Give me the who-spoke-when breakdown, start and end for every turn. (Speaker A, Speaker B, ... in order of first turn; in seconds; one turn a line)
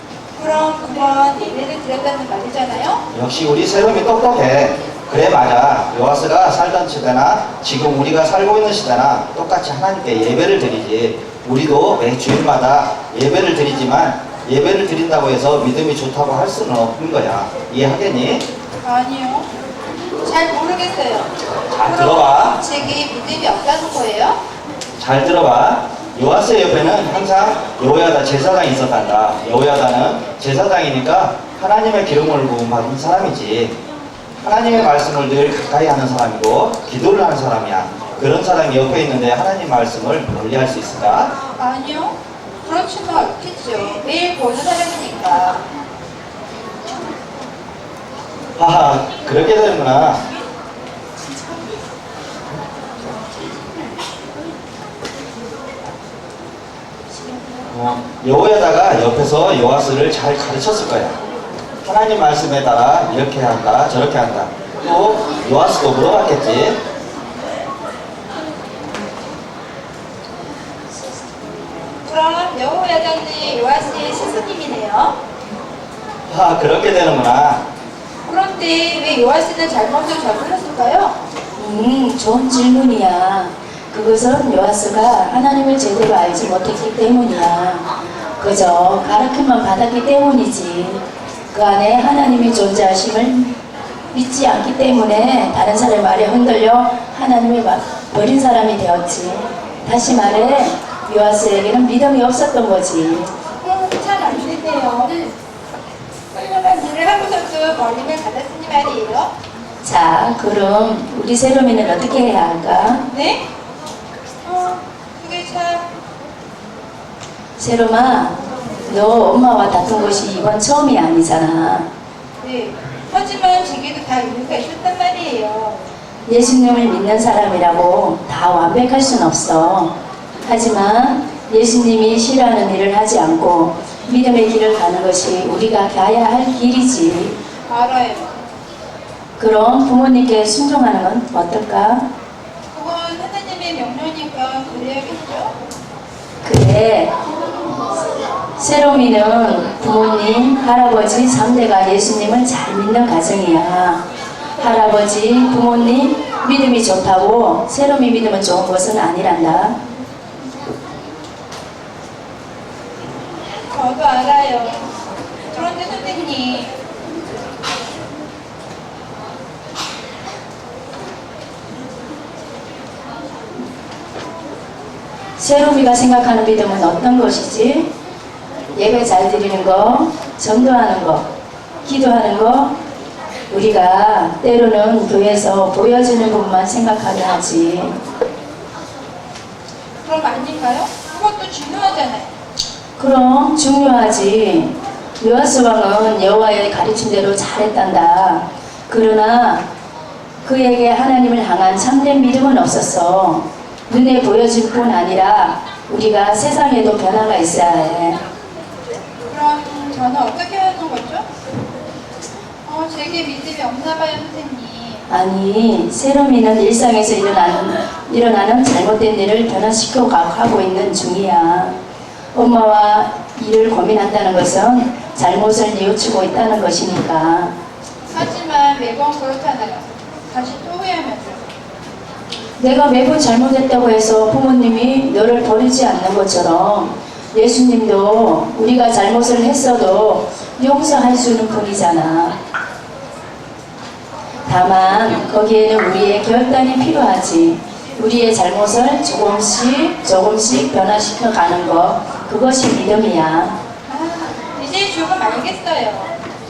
Speaker A: 0.4-3.0
Speaker B: 3.1-18.5
Speaker A: 18.8-19.5
Speaker A: 20.2-24.4
Speaker B: 21.7-22.6
Speaker B: 25.0-33.8
Speaker B: 34.4-41.4
Speaker A: 41.6-45.6
Speaker B: 48.6-50.2
Speaker B: 57.7-61.2
Speaker B: 61.8-66.8
Speaker A: 72.0-75.2
Speaker B: 76.3-77.6
Speaker A: 78.3-81.2
Speaker C: 81.6-93.5
Speaker C: 94.1-103.3
Speaker A: 103.6-105.3
Speaker A: 106.3-109.3
Speaker C: 109.8-113.0
Speaker A: 113.1-113.4
Speaker A: 114.5-115.9
Speaker C: 117.6-121.9
Speaker A: 122.4-125.8
Speaker C: 126.3-137.4
Speaker A: 137.7-138.4
Speaker C: 139.4-142.1
Speaker A: 142.7-145.5
Speaker C: 146.4-147.1
Speaker C: 148.6-154.1
Speaker C: 154.6-159.8
Speaker A: 163.7-164.9
Speaker A: 165.5-166.7
Speaker C: 175.4-177.9
Speaker C: 178.7-181.3
Speaker C: 181.8-182.8
Speaker C: 183.5-188.0
Speaker A: 190.0-192.3
Speaker C: 193.0-199.7
Speaker C: 200.4-208.2
Speaker A: 209.3-211.2
Speaker A: 212.7-215.0
Speaker C: 215.1-221.8
Speaker C: 222.3-227.5
Speaker A: 228.1-231.5
Speaker C: 232.6-242.4
Speaker C: 244.5-253.6
Speaker A: 253.9-256.1